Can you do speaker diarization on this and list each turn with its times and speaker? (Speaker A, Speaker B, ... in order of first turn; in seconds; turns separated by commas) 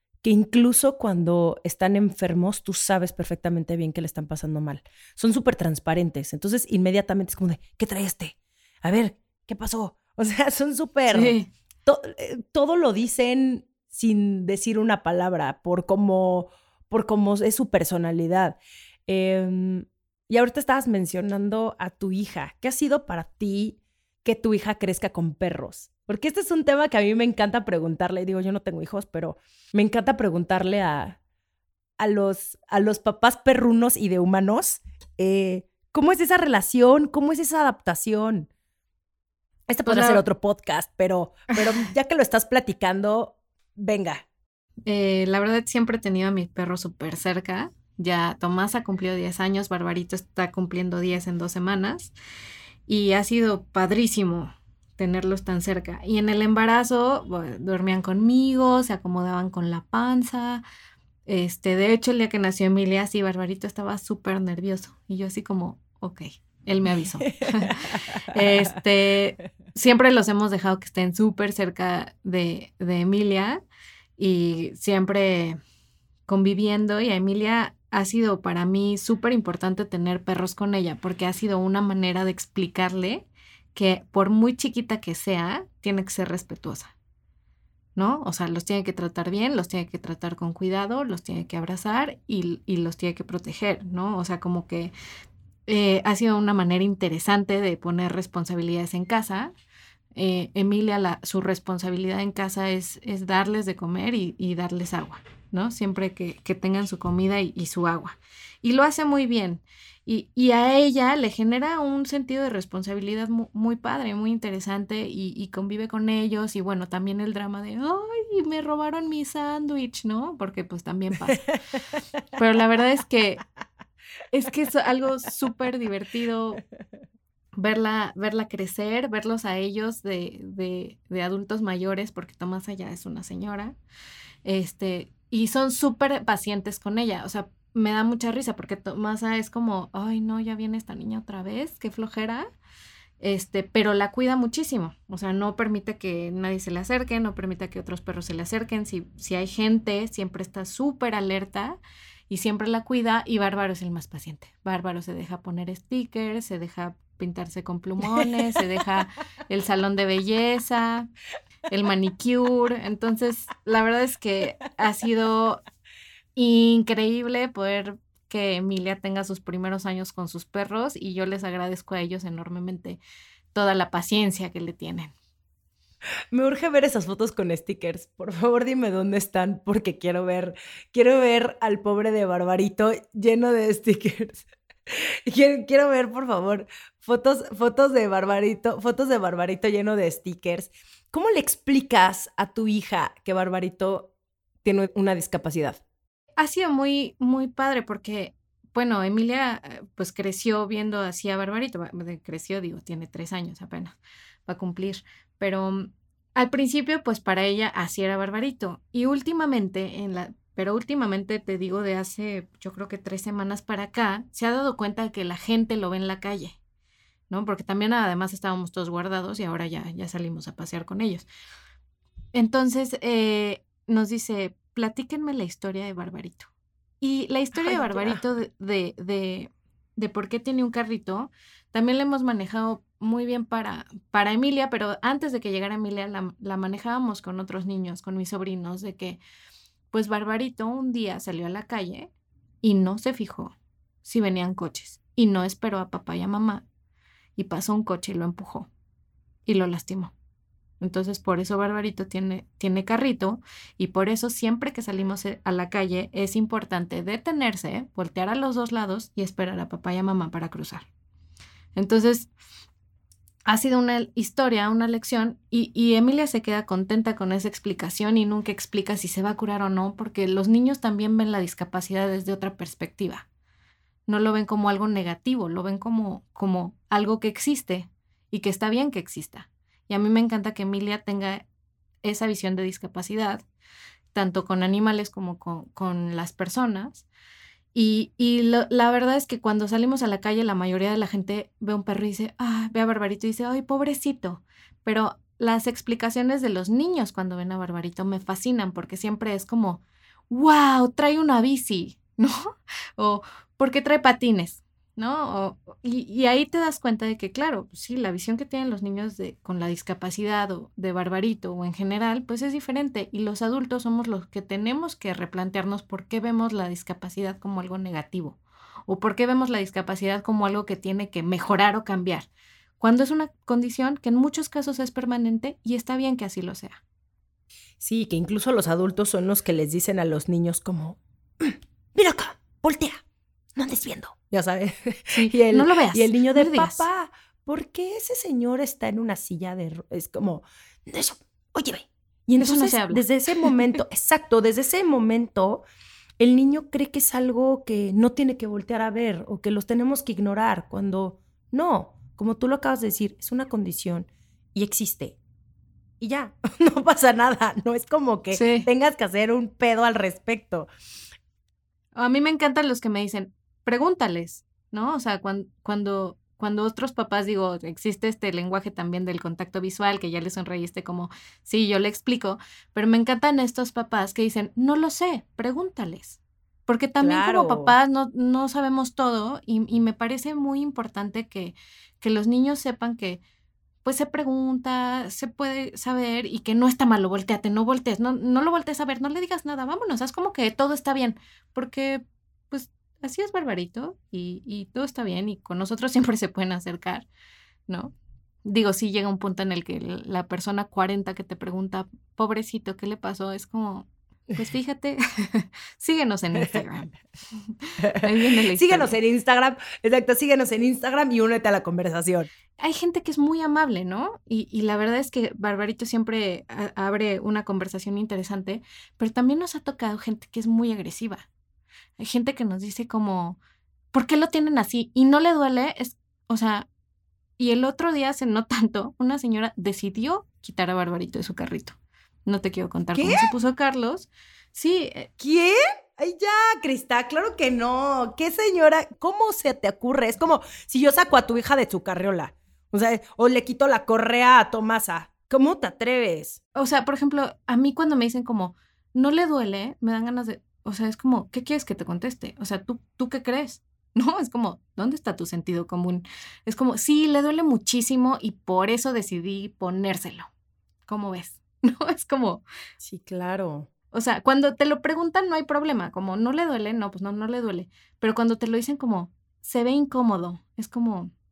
Speaker A: 0.2-31.2, Speaker B: 11.1-11.5, Speaker A: 32.0-38.5, Speaker A: 39.7-44.2, Speaker B: 39.8-40.2, Speaker B: 44.9-52.1, Speaker B: 52.9-60.6, Speaker B: 61.2-73.6, Speaker A: 67.4-67.7, Speaker A: 68.3-68.7, Speaker B: 74.2-75.6, Speaker B: 76.3-86.9, Speaker B: 88.0-94.9, Speaker B: 95.7-99.5, Speaker B: 100.1-121.4, Speaker B: 122.3-123.4, Speaker B: 124.3-126.6, Speaker B: 127.5-133.8, Speaker B: 134.4-142.5, Speaker B: 143.2-161.1, Speaker B: 161.7-165.6, Speaker B: 166.3-173.0, Speaker B: 173.5-175.1, Speaker A: 176.3-194.1, Speaker A: 194.6-195.8, Speaker B: 196.4-203.9, Speaker B: 204.5-216.6, Speaker B: 217.3-221.2, Speaker B: 222.3-226.5, Speaker B: 227.0-239.2, Speaker A: 227.5-228.2, Speaker B: 239.9-242.1, Speaker B: 242.6-246.6, Speaker B: 247.4-248.7, Speaker B: 249.4-250.1, Speaker B: 250.8-260.9, Speaker B: 261.8-262.3, Speaker B: 263.4-273.2, Speaker B: 274.1-281.4, Speaker B: 282.0-283.4, Speaker B: 284.1-287.1, Speaker B: 287.7-322.3, Speaker B: 322.8-326.8, Speaker A: 327.8-333.0, Speaker A: 333.5-345.6, Speaker B: 335.1-336.8, Speaker B: 342.4-343.0, Speaker A: 346.2-355.2, Speaker A: 356.0-360.7, Speaker B: 358.3-358.7, Speaker B: 361.9-383.2, Speaker A: 377.0-377.7, Speaker B: 383.8-397.1, Speaker B: 397.7-397.9, Speaker B: 398.4-408.9, Speaker A: 408.5-412.3, Speaker B: 412.6-421.2, Speaker B: 422.0-423.4, Speaker B: 423.9-426.7, Speaker B: 427.4-435.1, Speaker A: 432.9-433.3, Speaker A: 435.2-446.4, Speaker B: 446.5-460.3, Speaker B: 460.9-462.4, Speaker A: 462.8-463.7, Speaker B: 463.9-471.1